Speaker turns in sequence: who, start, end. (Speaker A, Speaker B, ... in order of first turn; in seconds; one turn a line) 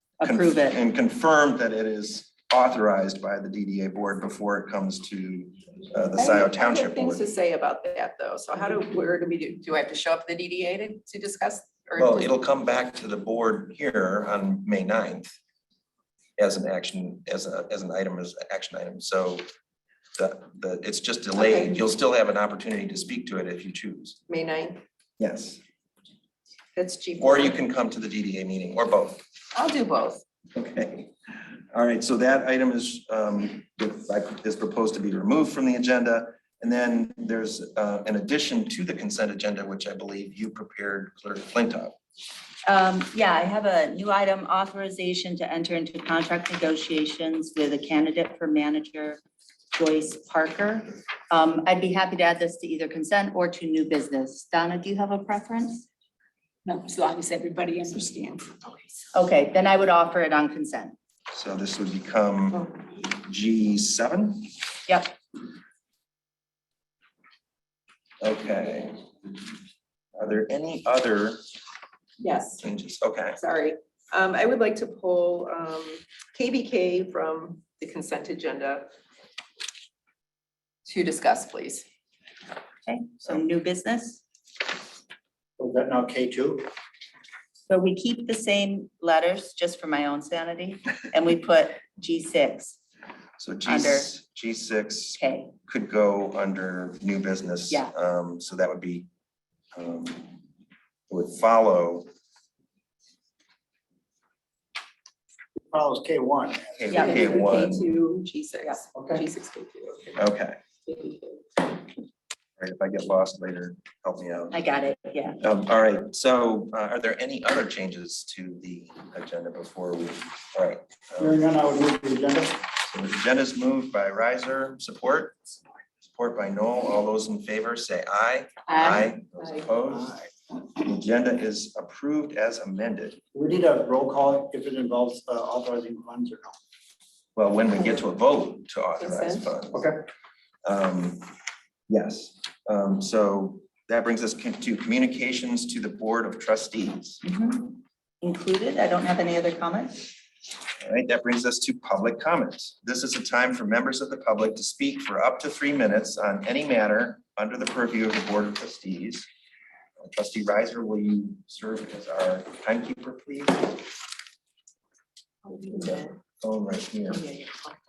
Speaker A: 0.2-0.8
Speaker B: 0.2-7.2
Speaker C: 6.1-12.3
Speaker B: 12.0-15.3
Speaker B: 16.4-19.4
Speaker B: 20.2-24.2
Speaker C: 21.4-21.8
Speaker C: 24.3-24.8
Speaker B: 25.2-25.6
Speaker C: 26.8-27.6
Speaker B: 27.2-29.2
Speaker C: 29.5-30.2
Speaker B: 30.5-31.1
Speaker B: 31.7-41.9
Speaker A: 42.6-49.2
Speaker A: 49.7-55.9
Speaker D: 56.6-58.6
Speaker A: 59.1-60.9
Speaker B: 61.3-64.5
Speaker A: 64.9-65.1
Speaker B: 68.2-69.0
Speaker B: 70.2-71.4
Speaker C: 72.2-72.6
Speaker B: 72.6-73.4
Speaker C: 73.3-78.9
Speaker C: 80.8-81.8
Speaker A: 82.9-84.2
Speaker E: 85.6-86.7
Speaker A: 87.7-92.8
Speaker B: 93.4-99.1
Speaker A: 93.7-94.1
Speaker A: 95.2-95.5
Speaker B: 99.8-100.4
Speaker B: 101.1-102.1
Speaker E: 105.7-107.5
Speaker B: 106.8-107.9
Speaker C: 106.9-110.2
Speaker E: 108.9-109.2
Speaker B: 110.2-110.6
Speaker C: 110.8-111.4
Speaker B: 112.6-114.6
Speaker A: 114.5-115.4
Speaker B: 115.4-121.4
Speaker E: 121.2-122.6
Speaker B: 122.9-125.4
Speaker B: 126.0-130.1
Speaker A: 128.7-129.0
Speaker E: 129.9-130.2
Speaker B: 130.8-133.2
Speaker E: 133.3-136.6
Speaker B: 137.3-139.9
Speaker C: 139.0-139.5
Speaker B: 140.6-141.3
Speaker B: 141.9-147.2
Speaker A: 147.2-150.1
Speaker B: 150.8-159.3
Speaker B: 160.0-163.8
Speaker C: 165.4-166.1
Speaker B: 166.4-167.2
Speaker C: 167.1-167.8